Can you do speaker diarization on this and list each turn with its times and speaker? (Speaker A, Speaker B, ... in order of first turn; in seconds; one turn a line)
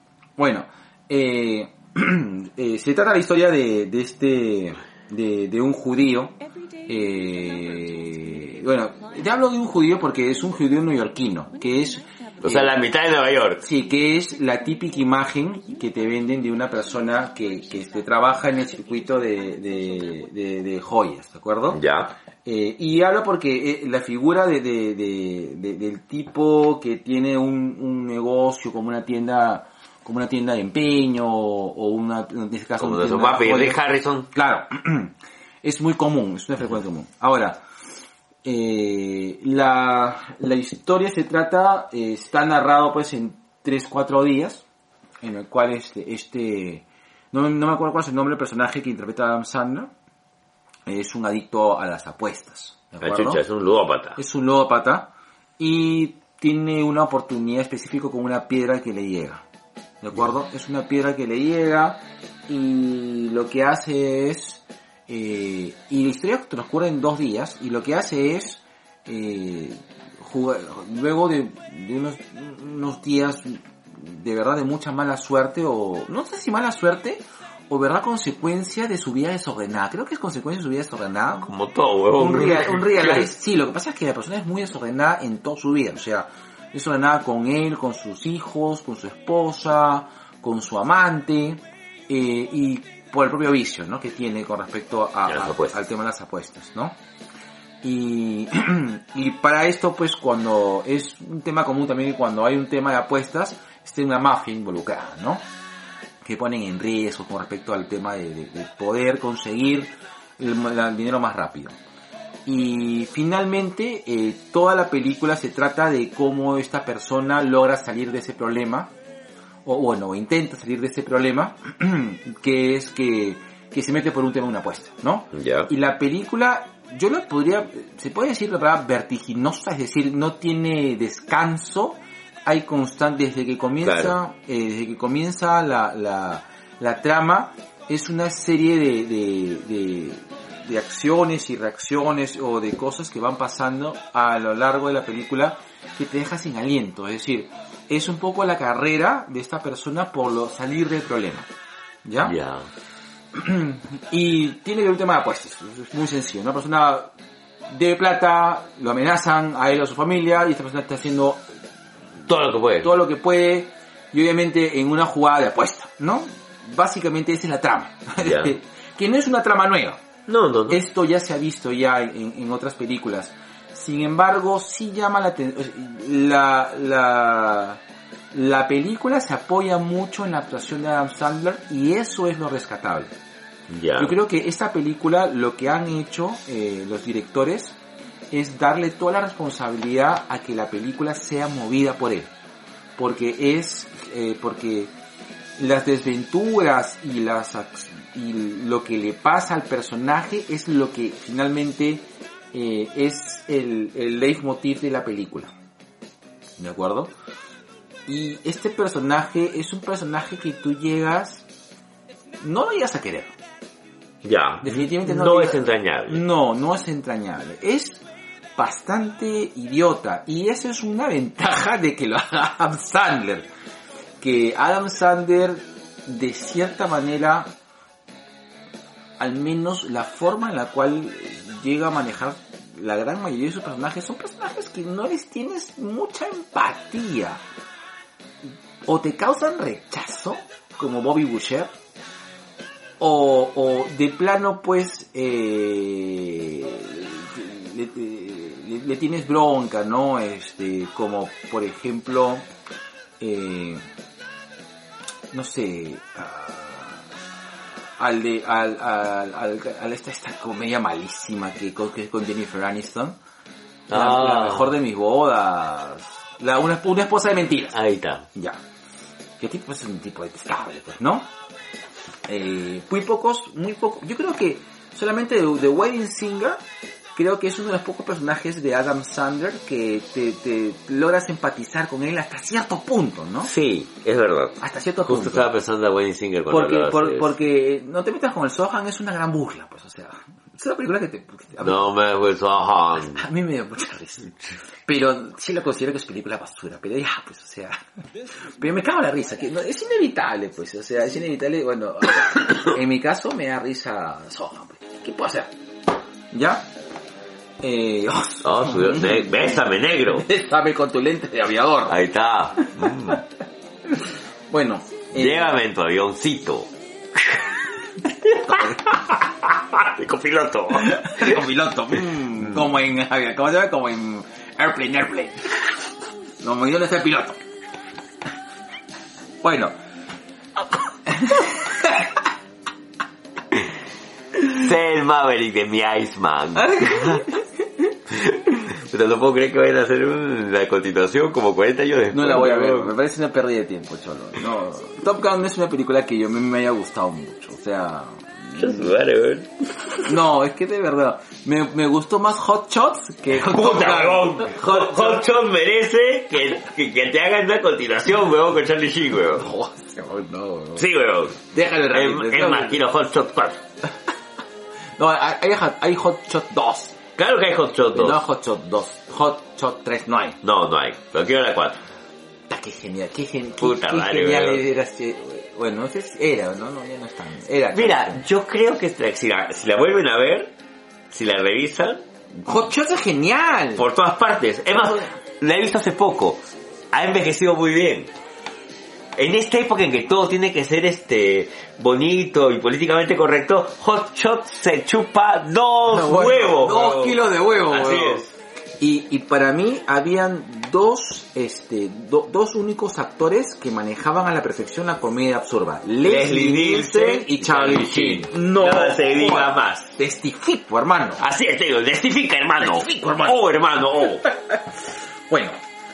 Speaker A: 0.4-12.7
Speaker B: 12.4-13.6
Speaker A: 13.6-21.8
Speaker B: 21.7-22.1
Speaker A: 22.4-37.6
Speaker B: 32.8-34.3
Speaker A: 38.4-44.6
Speaker A: 45.2-49.9
Speaker A: 50.9-53.4
Speaker B: 53.0-54.2
Speaker A: 54.1-59.4
Speaker A: 60.0-81.5
Speaker B: 81.4-83.3
Speaker A: 82.1-97.0
Speaker B: 95.3-95.7
Speaker A: 97.8-105.4
Speaker A: 106.2-111.8
Speaker A: 112.5-118.9
Speaker A: 119.6-151.5
Speaker B: 125.3-125.7
Speaker B: 133.8-134.1
Speaker A: 152.0-152.3
Speaker B: 152.2-152.7
Speaker A: 153.3-157.1
Speaker A: 157.7-161.5
Speaker B: 162.3-162.9
Speaker A: 162.8-170.0
Speaker B: 168.2-168.5
Speaker B: 170.3-170.8
Speaker A: 170.7-177.8
Speaker A: 178.3-183.1
Speaker B: 183.7-184.2
Speaker A: 184.0-187.8
Speaker A: 188.3-192.3
Speaker A: 193.0-194.9
Speaker A: 195.6-205.5
Speaker A: 206.6-207.1
Speaker A: 208.1-211.4
Speaker A: 212.4-213.3
Speaker B: 214.2-216.2
Speaker A: 214.6-218.0
Speaker A: 218.6-223.5
Speaker A: 224.2-227.5
Speaker A: 229.2-237.4
Speaker A: 238.8-241.7
Speaker A: 243.0-252.4
Speaker A: 253.2-253.8
Speaker A: 255.3-257.0
Speaker A: 258.0-263.2
Speaker B: 263.9-264.7
Speaker A: 263.9-267.8
Speaker B: 267.7-268.3
Speaker A: 269.4-271.3
Speaker A: 272.3-276.6
Speaker A: 277.1-283.5
Speaker B: 283.4-287.3
Speaker A: 284.6-285.5
Speaker A: 286.5-291.9
Speaker B: 291.6-293.2
Speaker A: 293.0-294.3
Speaker A: 294.9-297.8
Speaker A: 298.6-305.5
Speaker A: 306.3-306.7
Speaker A: 307.6-309.4
Speaker B: 308.4-310.3
Speaker A: 310.2-312.0
Speaker B: 311.9-313.2
Speaker A: 312.6-313.1
Speaker A: 314.5-315.6
Speaker B: 315.1-317.5
Speaker B: 318.2-321.4
Speaker A: 320.7-325.5
Speaker A: 326.4-327.4
Speaker A: 329.4-329.7
Speaker A: 331.1-332.2
Speaker B: 334.4-337.3
Speaker A: 336.5-337.4
Speaker B: 338.1-342.9
Speaker A: 342.1-348.9
Speaker B: 348.5-349.5
Speaker A: 350.0-355.2
Speaker B: 353.3-359.5
Speaker A: 359.4-360.9
Speaker B: 360.8-363.6
Speaker A: 361.5-362.8
Speaker A: 365.0-367.0
Speaker B: 367.2-368.2
Speaker A: 367.9-370.4
Speaker B: 370.4-371.8
Speaker A: 372.5-378.2
Speaker B: 373.6-374.6
Speaker B: 377.7-380.5
Speaker B: 381.1-382.0
Speaker A: 382.4-383.9
Speaker B: 383.8-388.1
Speaker B: 389.1-398.3
Speaker A: 395.9-398.3
Speaker A: 398.8-411.2
Speaker B: 406.0-410.0
Speaker B: 411.2-414.3
Speaker A: 412.6-413.4
Speaker A: 414.0-414.6
Speaker A: 415.3-415.6